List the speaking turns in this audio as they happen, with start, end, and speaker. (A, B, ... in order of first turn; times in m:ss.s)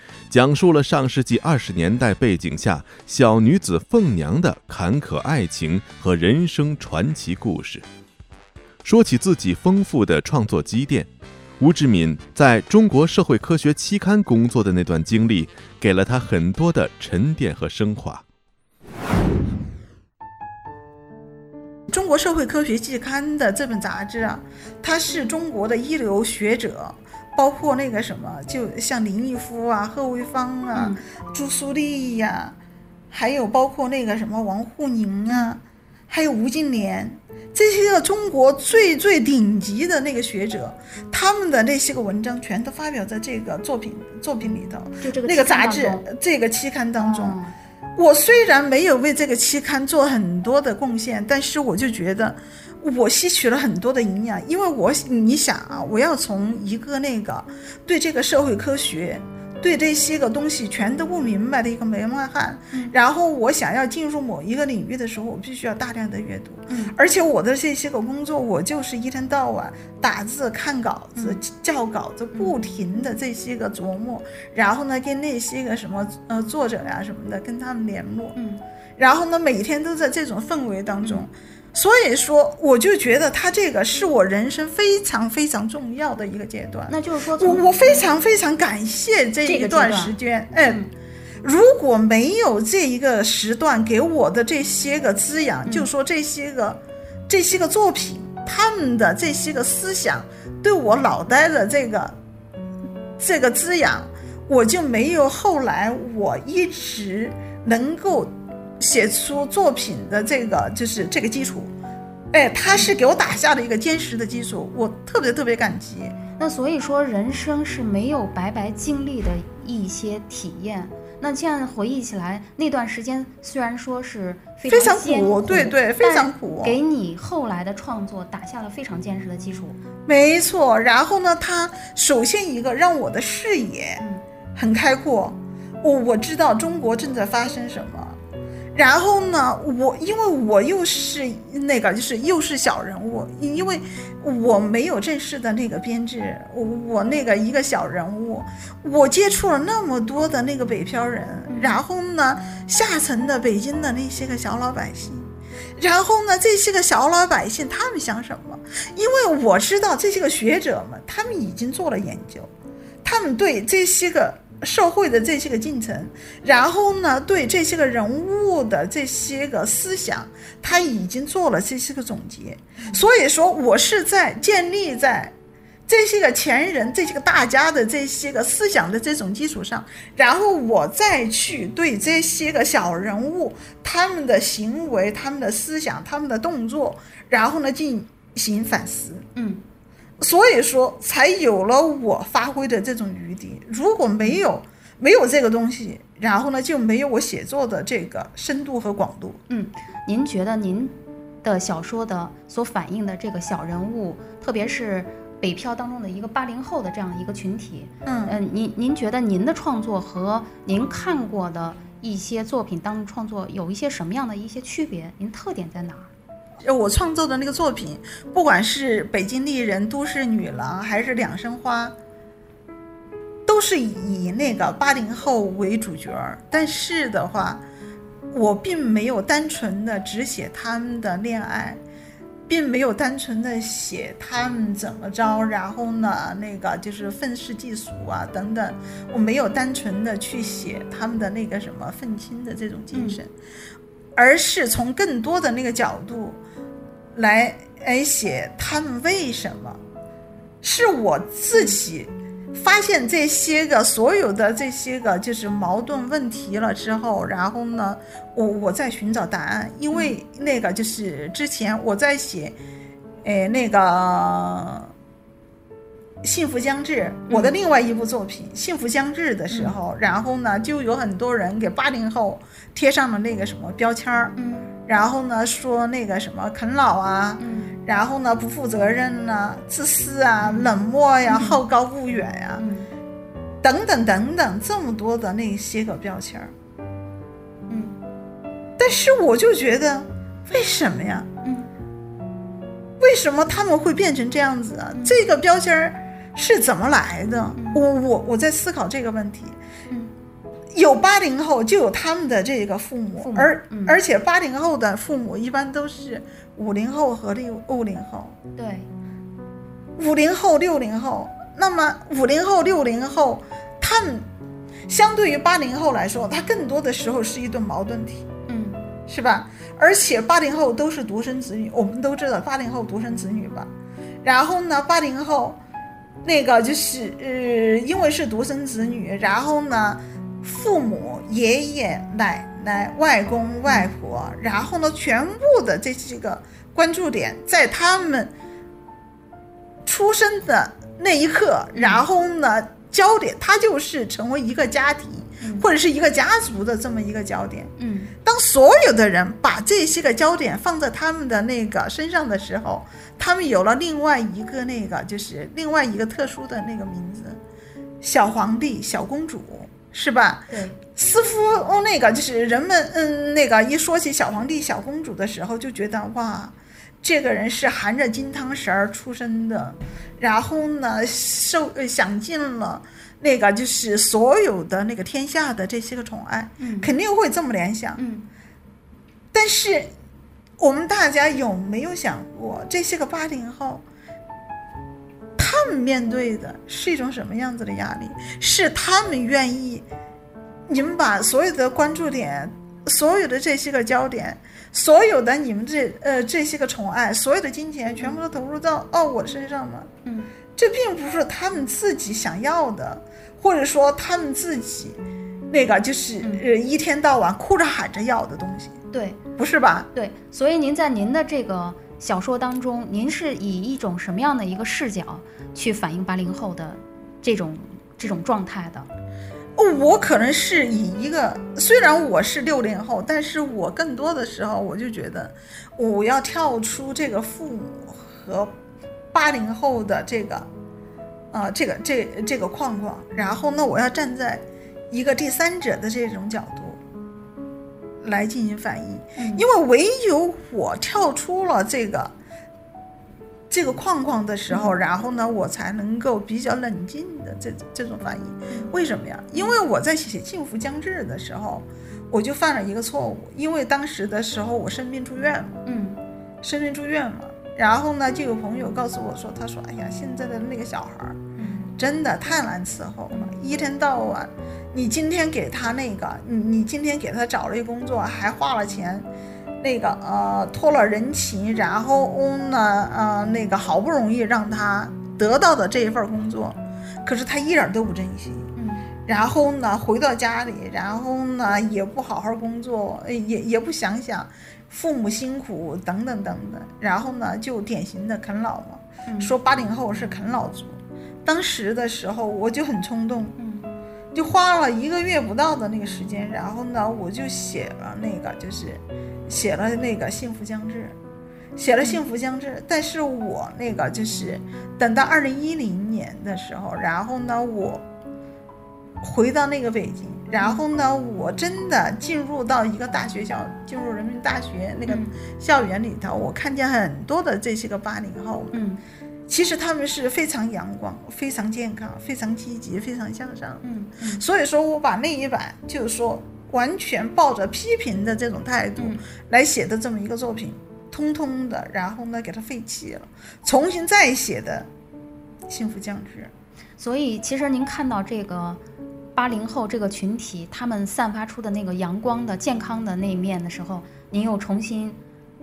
0:00.3-0:07.8 A
0:08.8-0:18.2 A
0:21.9-0:32.6 B
0:30.8-0:31.0 C
0:33.1-0:47.4 B
0:45.0-0:46.0 C
0:47.0-0:47.5 C
0:48.0-1:18.4 B
1:06.7-1:06.9 C
1:18.4-1:18.6 C
1:19.0-1:30.8 B
1:26.9-1:28.1 C
1:29.4-1:30.1 C
1:31.4-1:42.2 B
1:43.2-1:51.7 B
1:52.3-1:56.2 B
1:56.4-2:09.8 C
2:04.7-2:06.8 B
2:10.1-2:14.0 B
2:14.6-2:18.2 B
2:18.8-2:42.5 B
2:31.5-2:31.8 C
2:43.0-2:55.3 B
2:55.9-3:09.2 B
3:09.4-3:09.6 C
3:10.2-3:19.4 B
3:19.5-3:36.1 C
3:28.0-3:28.4 B
3:36.6-3:42.0 B
3:43.5-3:47.6 B
3:48.3-3:51.8 B
3:52.5-4:03.3 B
4:02.9-4:03.2 C
4:04.2-4:06.4 B
4:07.2-4:09.8 B
4:10.6-4:22.6 B
4:23.2-4:24.9 B
4:26.2-4:42.6 B
4:27.3-4:27.6 C
4:29.5-4:29.8 C
4:34.4-4:34.7 C
4:37.4-4:37.7 C
4:40.4-4:40.7 C
4:41.3-4:41.6 C
4:42.6-4:42.9 C
4:43.6-4:46.5 B
4:47.7-4:48.0 C
4:48.8-4:51.3 B
4:51.4-4:51.7 C
4:53.0-4:59.6 B
4:57.6-4:57.8 C
5:00.7-5:08.4 B
5:03.2-5:04.0 C
5:08.6-5:08.9 C
5:10.0-5:14.3 B
5:14.9-5:18.3 B
5:18.5-5:18.8 C
5:19.1-5:23.7 B
5:24.2-5:25.6 B
5:26.2-5:38.3 B
5:39.8-5:47.7 B
5:41.7-5:42.0 C
5:45.4-5:45.7 C
5:47.8-5:48.1 C
5:48.2-5:57.4 B
5:58.0-6:18.0 B
6:00.5-6:00.8 C
6:16.6-6:16.9 C
6:18.0-6:18.3 C
6:19.3-6:19.9 B
6:20.6-6:23.8 B
6:25.4-6:29.9 B
6:30.7-6:39.9 B
6:40.1-6:40.3 C
6:40.6-6:45.0 B
6:45.5-6:48.8 B
6:48.9-6:49.2 C
6:49.4-6:49.9 B
6:50.0-6:58.9 C
6:59.6-7:08.5 B
7:09.1-7:10.5 B
7:11.3-7:16.8 B
7:18.0-7:22.1 B
7:19.2-7:19.4 C
7:23.5-7:35.6 B
7:35.7-7:36.0 C
7:36.4-7:41.2 B
7:41.4-7:41.7 C
7:41.8-7:49.1 B
7:49.6-7:58.5 B
7:58.6-7:58.9 C
7:59.1-8:13.4 B
8:09.1-8:09.3 C
8:13.4-8:13.7 C
8:14.1-8:21.0 B
8:21.6-8:27.8 B
8:29.0-8:38.6 B
8:38.5-8:38.8 C
8:39.3-8:43.6 B
8:43.6-8:44.2 C
8:44.2-8:54.7 B
8:48.8-8:49.0 C
8:55.5-8:56.3 B
8:56.8-8:58.6 C
8:59.2-9:05.0 C